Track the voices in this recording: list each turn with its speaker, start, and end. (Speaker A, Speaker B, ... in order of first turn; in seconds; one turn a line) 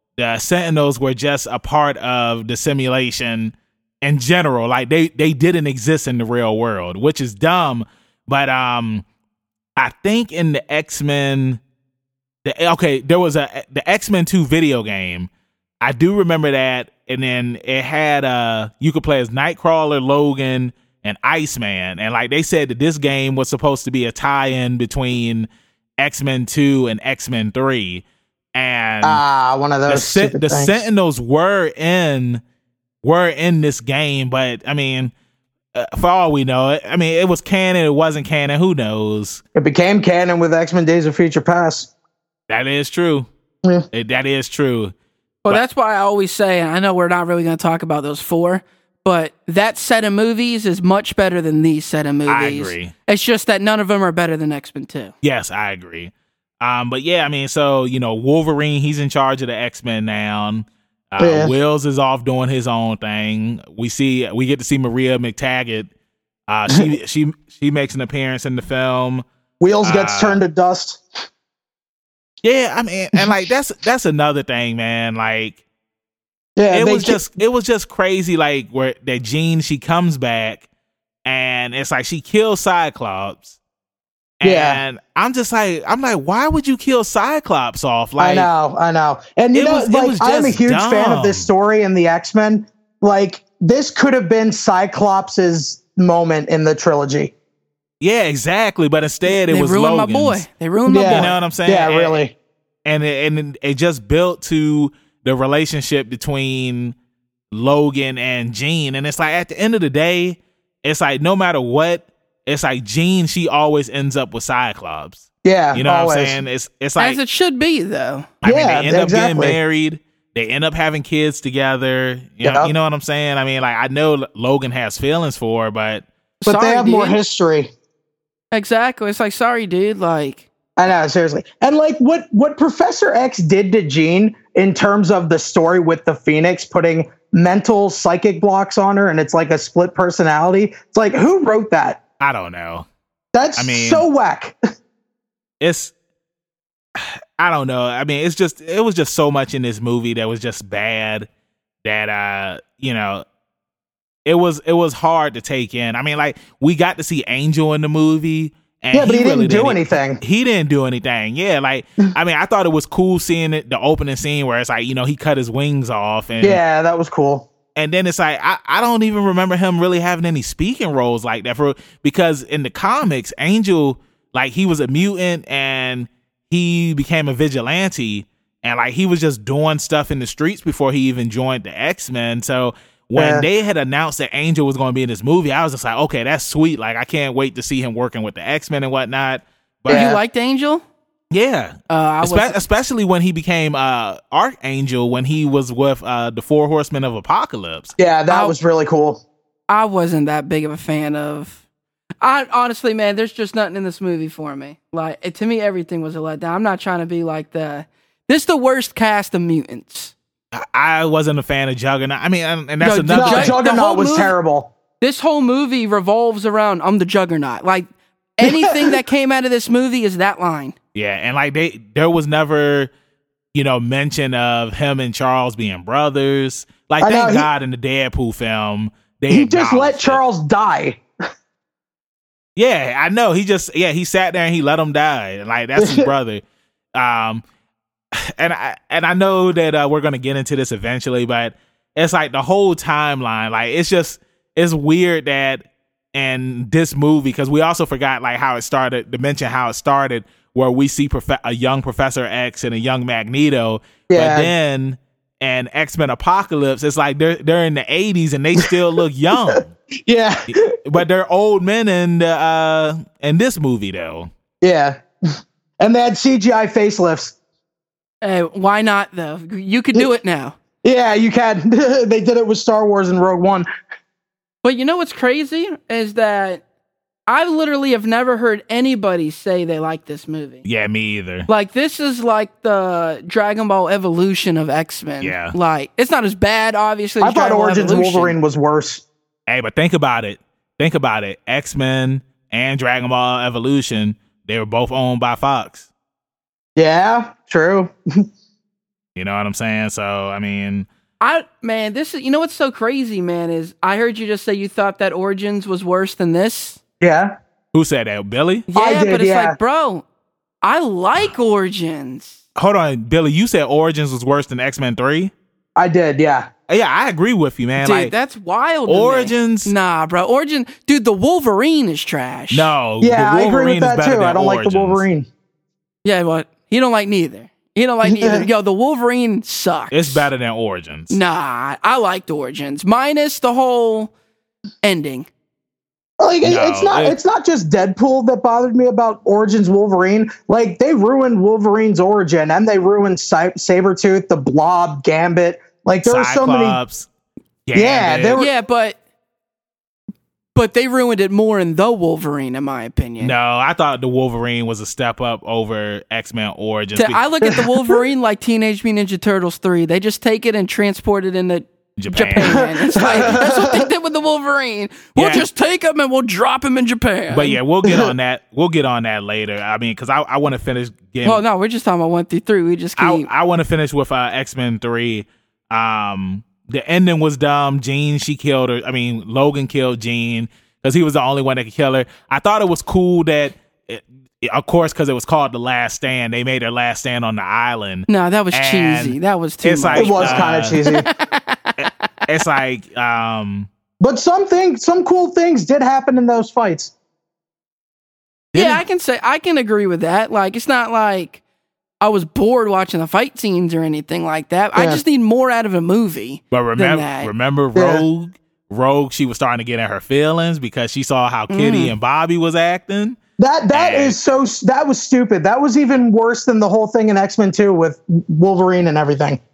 Speaker A: 0.2-9.0
Speaker A: 9.8-11.6
Speaker A: 12.4-15.3
Speaker A: 15.8-29.2
Speaker B: 29.0-30.8
Speaker A: 29.9-32.4
Speaker A: 33.0-35.1
Speaker A: 35.7-39.4
Speaker B: 39.5-41.9
Speaker A: 42.5-43.3
Speaker A: 43.9-44.9
Speaker C: 45.4-55.1
Speaker A: 52.3-52.9
Speaker A: 55.2-65.9
Speaker B: 61.2-61.5
Speaker A: 66.5-69.2
Speaker B: 69.6-71.0
Speaker A: 69.8-70.4
Speaker A: 72.4-75.6
Speaker B: 76.6-77.2
Speaker A: 76.7-80.6
Speaker A: 81.2-83.6
Speaker A: 84.4-88.5
Speaker B: 84.4-84.8
Speaker B: 88.2-97.3
Speaker A: 89.5-91.5
Speaker A: 98.0-100.4
Speaker C: 99.3-101.3
Speaker B: 100.9-102.3
Speaker A: 101.0-102.2
Speaker A: 102.8-106.9
Speaker A: 107.5-117.2
Speaker B: 115.4-116.4
Speaker C: 117.0-118.3
Speaker A: 118.4-126.0
Speaker B: 118.4-119.6
Speaker B: 122.4-122.7
Speaker C: 126.4-127.2
Speaker B: 126.5-127.7
Speaker C: 128.5-130.4
Speaker B: 130.8-142.0
Speaker A: 142.2-142.8
Speaker B: 143.3-144.6
Speaker A: 143.6-144.0
Speaker A: 145.6-145.9
Speaker A: 146.9-151.3
Speaker A: 151.8-153.2
Speaker A: 154.2-166.6
Speaker B: 158.9-160.2
Speaker B: 166.4-167.5
Speaker A: 167.7-190.2
Speaker B: 183.2-183.5
Speaker B: 189.9-190.2
Speaker C: 189.9-190.8
Speaker A: 191.3-197.9
Speaker C: 191.9-192.6
Speaker B: 198.0-199.2
Speaker C: 198.3-198.6
Speaker C: 199.7-201.6
Speaker C: 202.2-210.1
Speaker A: 210.5-213.6
Speaker C: 212.8-214.3
Speaker B: 213.1-214.7
Speaker C: 215.0-220.7
Speaker A: 220.9-222.9
Speaker A: 223.5-230.2
Speaker B: 227.0-227.5
Speaker B: 229.3-231.0
Speaker A: 232.6-236.4
Speaker B: 235.8-236.1
Speaker A: 236.9-237.4
Speaker A: 238.1-259.7
Speaker B: 254.1-254.5
Speaker B: 260.1-260.7
Speaker A: 260.5-264.3
Speaker B: 264.6-265.0
Speaker B: 265.8-267.3
Speaker C: 268.2-270.5
Speaker B: 270.8-273.7
Speaker C: 274.6-276.6
Speaker C: 277.3-280.6
Speaker A: 280.6-281.5
Speaker C: 281.5-288.3
Speaker A: 285.2-285.5
Speaker B: 287.2-289.0
Speaker A: 289.5-295.9
Speaker B: 296.8-298.2
Speaker A: 299.1-300.9
Speaker C: 301.2-306.8
Speaker B: 307.0-307.3
Speaker A: 307.7-308.7
Speaker C: 308.7-310.0
Speaker B: 308.7-309.6
Speaker C: 310.6-312.4
Speaker A: 312.6-315.3
Speaker B: 315.8-316.5
Speaker A: 316.7-318.1
Speaker C: 317.8-322.7
Speaker A: 318.9-319.7
Speaker A: 322.5-325.0
Speaker B: 323.0-325.3
Speaker C: 326.0-330.3
Speaker B: 328.0-328.4
Speaker A: 329.9-331.2
Speaker C: 331.1-334.1
Speaker C: 334.8-335.3
Speaker B: 336.2-346.8
Speaker A: 336.4-337.1
Speaker A: 346.1-347.1
Speaker A: 347.7-348.4
Speaker B: 347.7-348.5
Speaker C: 348.4-349.0
Speaker C: 350.5-353.3
Speaker A: 353.2-357.2
Speaker C: 356.9-367.6
Speaker B: 357.5-357.9
Speaker A: 362.0-363.4
Speaker B: 362.4-363.9
Speaker A: 365.1-365.5
Speaker A: 367.3-371.4
Speaker B: 367.8-368.1
Speaker C: 371.2-373.3
Speaker A: 373.0-390.8
Speaker C: 388.1-391.9
Speaker B: 389.9-391.1
Speaker A: 391.8-393.7
Speaker B: 394.0-396.9
Speaker A: 398.5-398.8
Speaker C: 398.5-401.4
Speaker C: 402.0-407.3
Speaker B: 404.7-405.0
Speaker A: 406.5-413.2
Speaker B: 407.7-408.0
Speaker C: 411.5-411.9
Speaker B: 413.4-419.4
Speaker A: 413.7-414.2